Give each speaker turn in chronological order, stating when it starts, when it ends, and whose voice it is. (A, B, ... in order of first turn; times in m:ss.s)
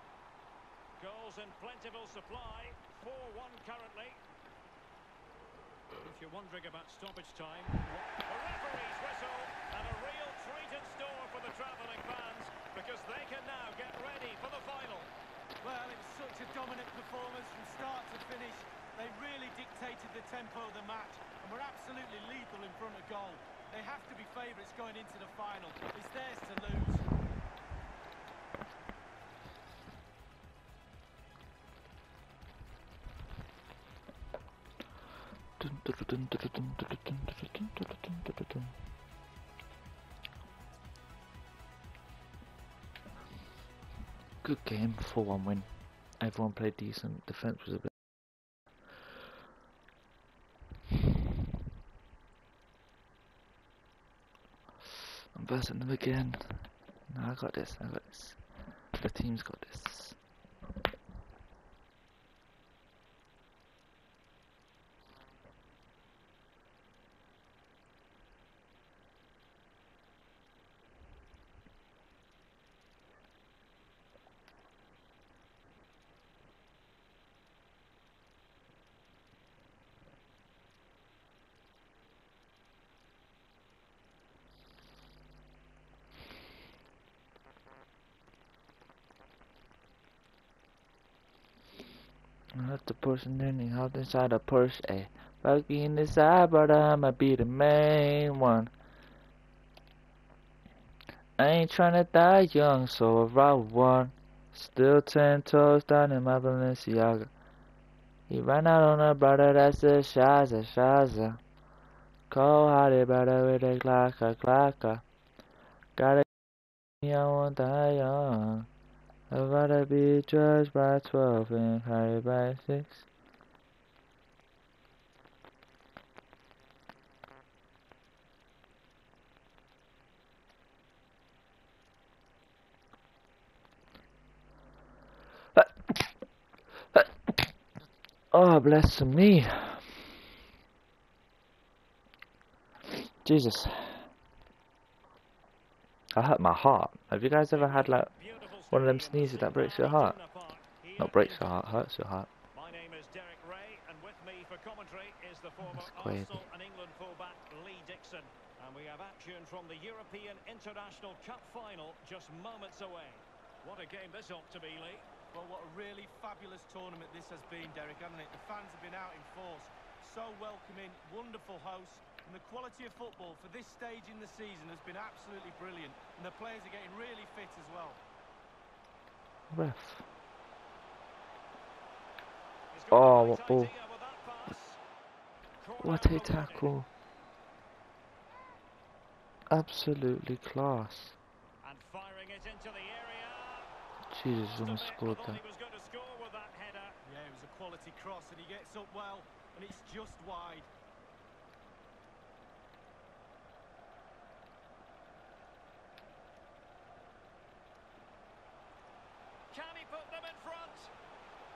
0:01.0-0:04.2 A
0:06.0-0:15.1 A
0:15.6-0:27.1 B
0:35.6-0:38.8 C
0:44.4-0:47.9 C
0:55.3-1:00.2 C
1:32.5-1:38.7 C
1:41.4-1:47.3 C
1:48.3-1:51.4 C
1:52.3-1:55.0 C
1:56.0-1:56.3 C
1:57.0-1:58.7 C
1:59.3-2:03.1 C
2:15.6-2:16.1 C
2:16.9-2:17.5 C
2:18.3-2:20.1 C
2:23.2-2:24.1 C
2:26.1-2:28.1 C
2:27.5-2:31.6 A
2:28.7-2:30.2 C
2:31.0-2:32.3 C
2:32.5-2:45.1 A
2:35.6-2:36.4 C
2:45.3-2:58.0 B
2:59.5-3:00.1 C
3:02.7-3:04.8 A
3:02.9-3:03.7 C
3:05.6-3:06.7 A
3:05.8-3:06.9 C
3:09.5-3:11.2 C
3:11.6-3:13.7 A
3:14.1-3:15.4 C
3:14.5-3:17.0 A
3:17.0-3:20.7 B
3:29.5-3:30.9 A